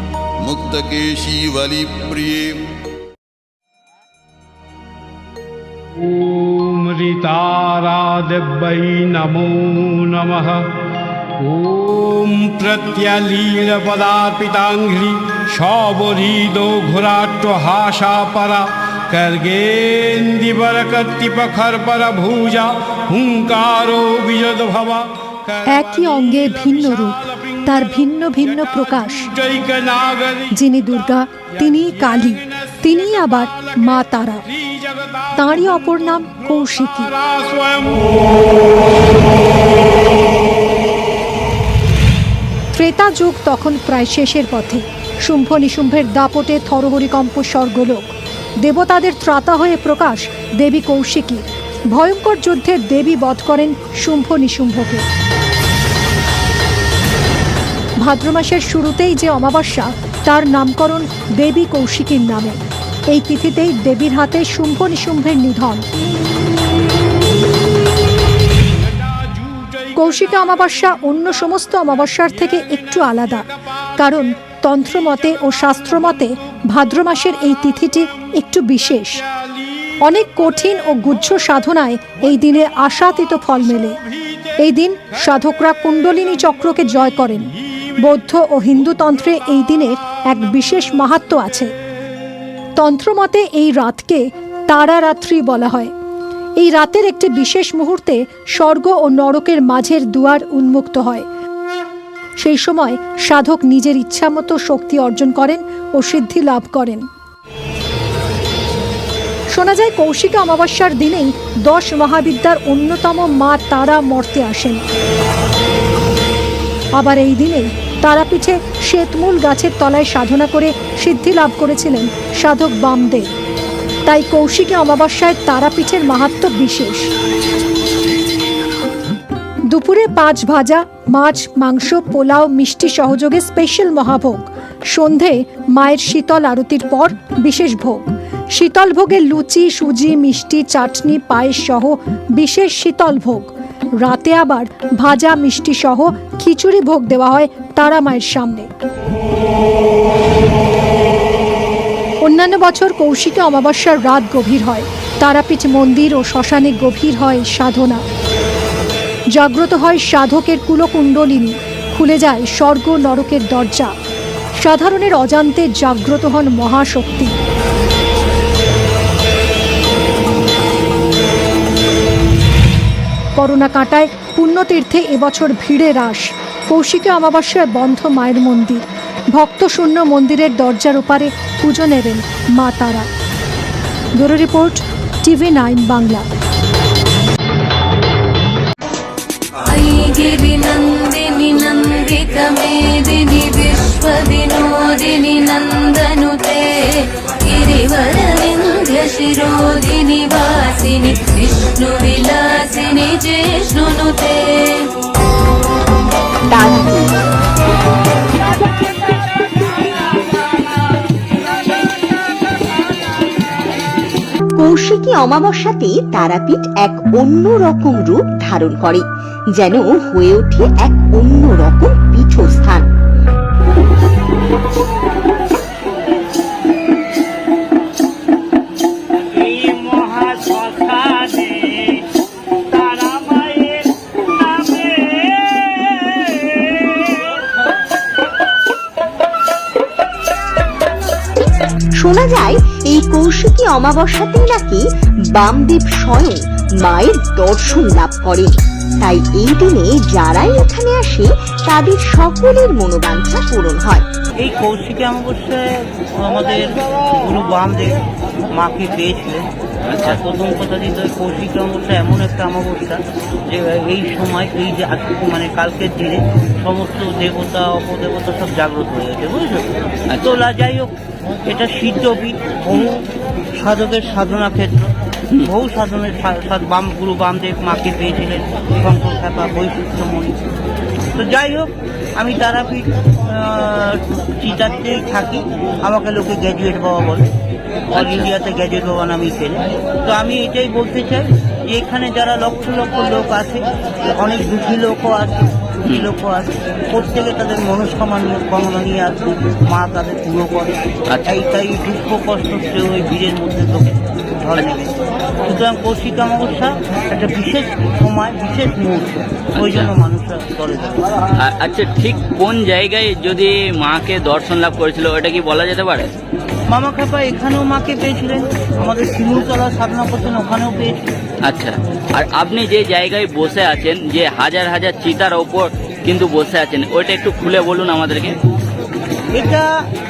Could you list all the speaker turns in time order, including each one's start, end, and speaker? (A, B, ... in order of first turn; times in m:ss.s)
0:00.4-0:02.6 A
0:06.0-0:10.7 B
0:11.4-0:27.6 B
0:25.6-0:29.3 C
0:29.3-0:30.5 B
0:30.5-0:34.4 C
0:34.6-0:35.3 B
0:35.3-0:37.2 C
0:36.8-0:38.0 B
0:42.7-0:48.1 C
0:48.6-0:55.0 C
0:58.0-1:05.8 C
1:09.1-1:09.9 B
1:09.9-1:19.2 C
1:20.0-1:24.0 C
1:24.6-1:31.7 C
1:32.8-1:35.9 C
1:36.6-1:41.2 C
1:42.4-1:47.0 C
1:49.5-1:54.8 C
1:56.9-2:03.3 C
2:04.0-2:07.1 C
2:09.7-2:28.7 C
2:32.2-2:38.0 C
2:39.3-2:43.9 C
2:44.6-2:47.3 C
2:53.4-3:03.1 C
3:04.1-3:06.2 C
3:09.6-3:24.8 D
3:26.5-3:27.1 E
3:34.6-3:42.9 E
4:02.0-4:14.0 E
4:14.4-4:15.6 F
4:16.2-4:18.0 F
4:18.5-4:19.4 F
4:19.9-4:20.2 G
4:20.0-4:30.9 F
4:30.1-4:30.3 G
4:31.5-4:33.0 F
4:33.5-4:34.9 F
4:35.4-4:40.4 F
4:41.2-4:47.2 F
4:47.9-5:11.2 F
4:47.9-4:48.3 G
5:01.1-5:01.4 G
5:09.6-5:09.9 G
5:11.4-5:16.1 G
5:16.7-5:21.0 F
5:21.4-5:28.4 G
5:29.3-5:29.6 F